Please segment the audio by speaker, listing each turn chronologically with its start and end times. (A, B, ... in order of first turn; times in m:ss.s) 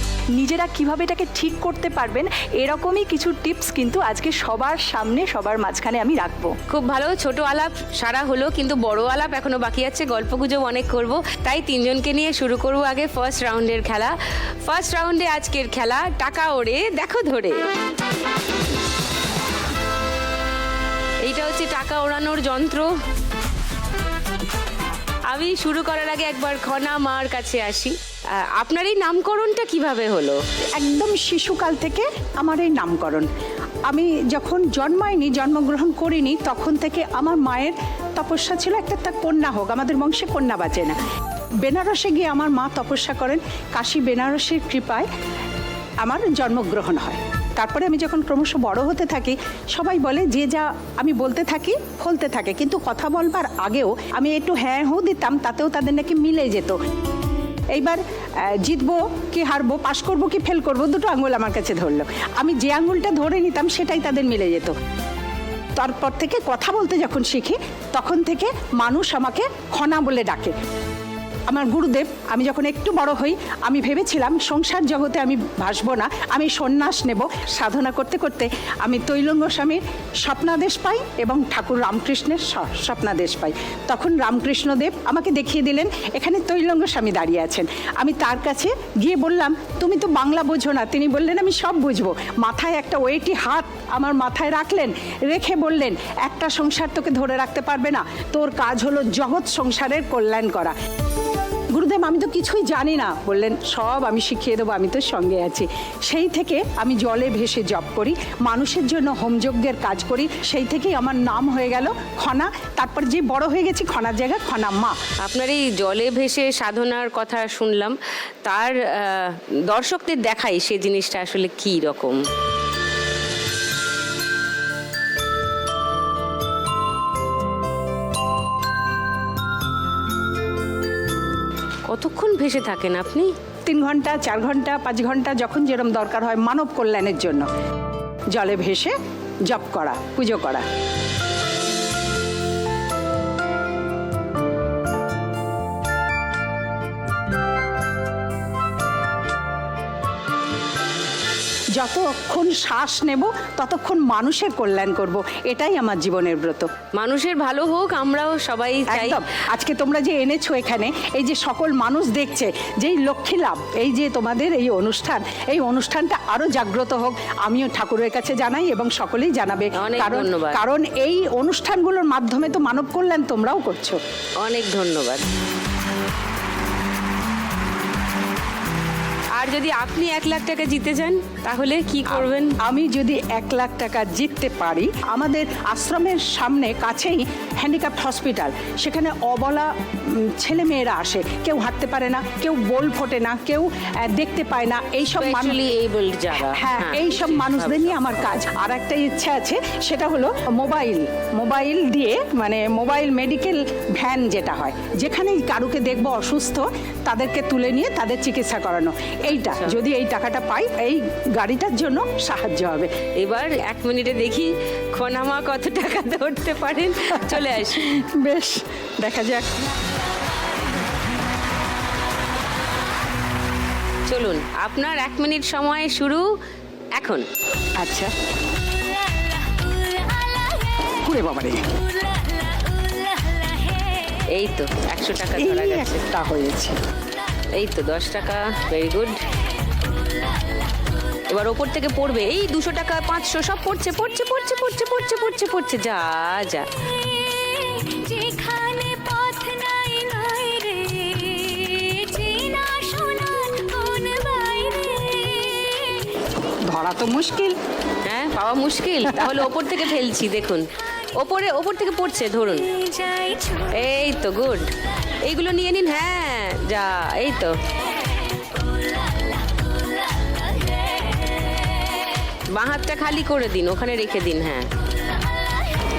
0:00.4-0:06.5 A
0:06.7-0:14.1 B
0:14.7-0:17.6 B
0:21.2-0:22.9 B
0:25.3-0:30.4 B
0:30.7-0:33.3 C
0:33.9-0:41.0 C
0:41.6-0:45.1 C
0:46.0-0:56.8 C
0:57.7-1:04.8 C
1:05.8-1:10.6 C
1:11.5-1:40.8 C
1:41.7-1:55.0 C
1:55.2-2:02.2 B
2:11.9-2:13.3 B
2:13.6-2:17.5 C
2:18.3-2:20.6 C
2:31.7-2:36.7 C
2:36.9-2:39.2 B
2:38.9-2:54.0 C
2:49.7-2:50.6 B
2:54.4-2:55.2 B
2:59.4-3:02.5 B
3:02.1-3:15.6 C
3:15.2-3:18.2 B
3:16.3-3:32.9 C
3:29.3-3:29.8 B
3:33.2-3:37.8 B
3:37.1-3:39.5 C
3:39.6-3:41.2 D
3:44.1-3:46.3 B
3:47.0-3:47.2 B
3:47.8-3:48.1 C
3:48.6-3:51.0 D
3:51.0-3:51.7 C
3:51.7-3:54.2 D
3:54.3-3:56.0 B
3:55.4-3:56.7 C
3:57.5-3:59.2 B
3:59.8-4:00.6 D
4:01.3-4:06.7 B
4:06.7-4:16.2 D
4:16.6-4:17.6 C
4:18.0-4:22.7 B
4:19.0-4:19.5 C
4:22.6-4:23.8 D
4:23.7-4:24.7 B
4:25.2-4:27.6 B
4:28.4-4:32.1 D
4:32.5-4:34.7 B